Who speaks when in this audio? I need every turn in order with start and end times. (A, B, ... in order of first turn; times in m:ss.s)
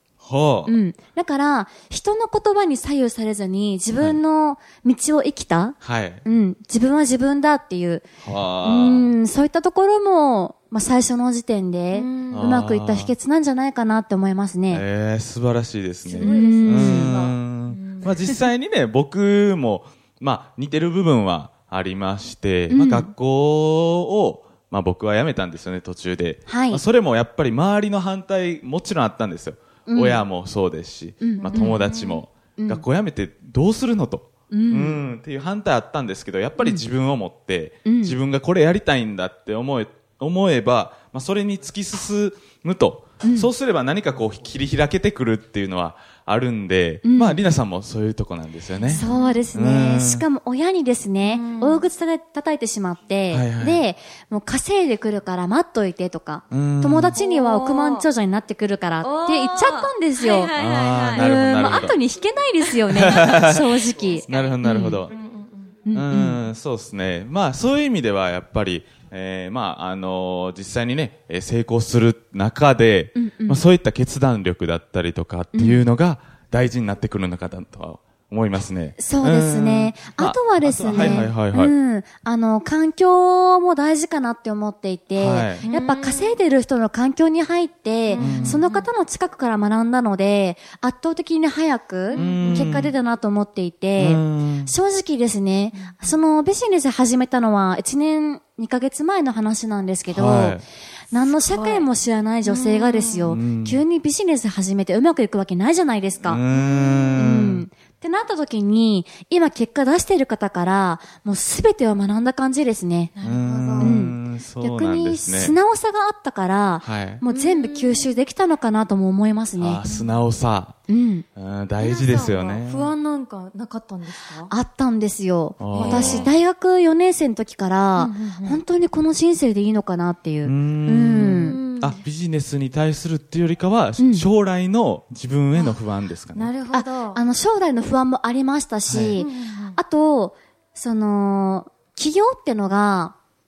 0:00.2-0:00.7 A
0:00.6-0:08.0 B
0:05.8-0:06.2 A
0:08.2-0:09.1 A
0:08.6-0:14.8 B
0:11.9-0:12.6 C
0:12.3-0:13.1 A
0:14.7-0:50.2 A
0:16.1-0:18.3 C
0:16.1-0:17.2 B
0:22.7-0:23.1 B
0:26.5-0:26.8 B
0:29.9-0:30.2 B
0:31.2-0:31.8 B
0:31.3-0:32.2 C
0:32.6-0:32.8 B
0:34.5-0:35.0 B
0:36.6-0:36.8 B
0:37.8-0:38.2 B
0:43.2-0:43.5 B
0:47.0-0:47.4 B
0:48.8-0:49.4 C
0:48.9-1:00.5 B
0:51.2-0:51.8 C
0:53.3-0:53.8 A
0:56.5-0:57.2 A
0:57.2-0:58.0 C
0:59.0-1:01.9 C
1:00.5-1:02.0 A
1:01.1-1:05.0 B
1:02.8-1:03.4 C
1:02.9-1:03.7 A
1:04.0-1:05.9 C
1:04.3-1:05.2 A
1:05.9-1:06.4 B
1:05.9-1:21.7 A
1:13.1-1:13.6 B
1:15.5-1:15.9 B
1:19.0-1:46.4 B
1:20.9-1:21.3 C
1:25.1-1:25.7 A
1:25.6-1:26.4 C
1:28.1-1:28.9 C
1:28.2-1:28.6 A
1:32.1-1:32.8 C
1:32.2-1:32.9 A
1:34.0-1:34.7 A
1:35.7-1:36.0 C
1:40.1-1:40.6 A
1:41.2-1:41.9 C
1:42.4-1:43.3 C
1:43.2-1:43.8 A
1:46.2-1:47.6 A
1:46.5-1:47.3 C
1:47.2-1:53.1 B
1:53.2-1:54.0 C
1:53.2-1:55.6 A
1:53.8-1:59.8 B
1:56.8-1:57.2 A
1:57.3-1:58.1 C
1:59.6-2:00.8 A
1:59.8-2:00.2 C
2:00.9-2:01.2 B
2:01.4-2:02.9 A
2:01.8-2:04.5 C
2:04.5-2:11.6 B
2:05.6-2:06.3 A
2:05.7-2:06.3 C
2:08.0-2:08.6 C
2:10.4-2:16.5 A
2:11.2-2:12.0 C
2:14.0-2:14.2 B
2:16.3-2:17.2 C
2:16.7-2:23.2 B
2:18.9-2:19.2 A
2:19.2-2:19.8 C